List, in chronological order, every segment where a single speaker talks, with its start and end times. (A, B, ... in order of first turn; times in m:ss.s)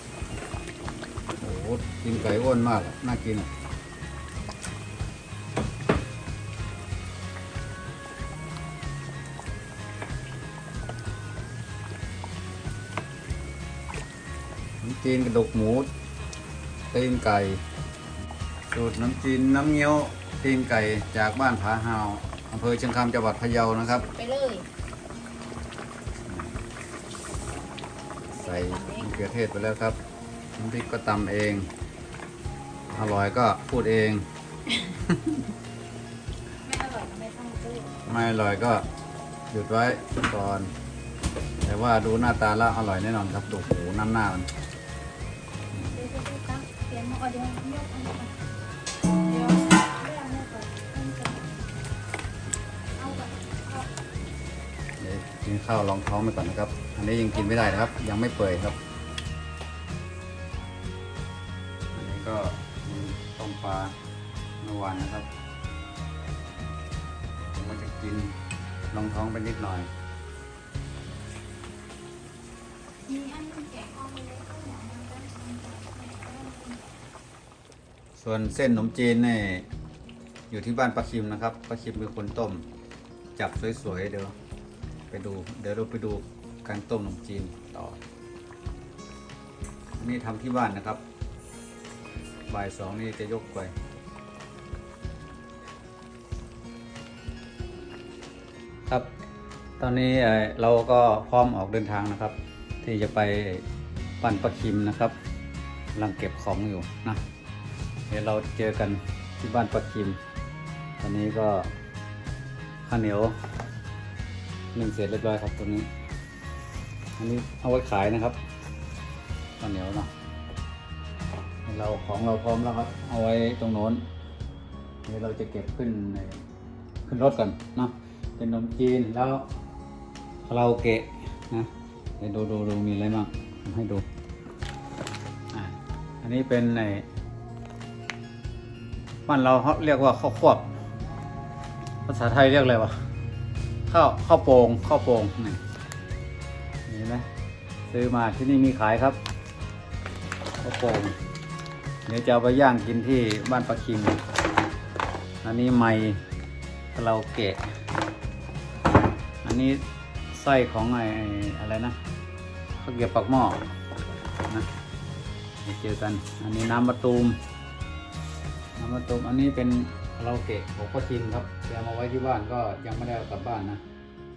0:01.4-0:03.5 A
0:14.8-0:15.9 A
0:16.9-0:17.6 A
0:18.7-0:24.1 A
0:24.1-0:24.7 B
0:26.3-0:26.5 A
0:28.3-0:30.0 A
0:30.6-0:31.7 A
0:32.9-0:34.3 A
0:36.6-0:37.9 B
0:38.1-0:38.8 A
0:39.5-0:40.7 A
0:41.6-0:44.5 A
0:45.9-0:48.3 B
0:49.2-0:51.6 B
0:53.0-0:53.8 B
0:55.0-0:58.8 A
1:01.9-1:04.0 A
1:04.6-1:05.3 A
1:07.5-1:08.3 A
1:08.9-1:09.9 A
1:13.1-1:16.8 B
1:18.2-1:19.7 A
1:20.5-1:22.7 A
1:23.4-1:24.4 A
1:25.1-1:28.0 A
1:30.0-1:31.0 A
1:32.5-1:33.7 A
1:39.8-1:43.6 A
1:44.2-1:45.2 A
1:46.0-1:47.2 A
1:48.1-1:50.2 A
1:51.0-1:51.7 A
1:52.9-1:53.4 A
1:54.8-1:55.9 A
1:57.2-1:58.4 A
1:59.6-2:00.1 A
2:01.7-2:04.1 A
2:05.0-2:06.4 A
2:07.1-2:09.4 A
2:10.5-2:14.1 A
2:15.5-2:17.1 A
2:19.3-2:20.7 A
2:22.1-2:22.9 A
2:23.9-2:25.6 A
2:26.9-2:27.3 A
2:27.9-2:29.2 A
2:30.6-2:31.2 A
2:32.1-2:34.2 A
2:35.4-2:36.2 A
2:37.0-2:37.7 A
2:39.4-2:42.0 A
2:42.8-2:43.6 A
2:45.6-2:47.4 A
2:48.8-2:53.8 A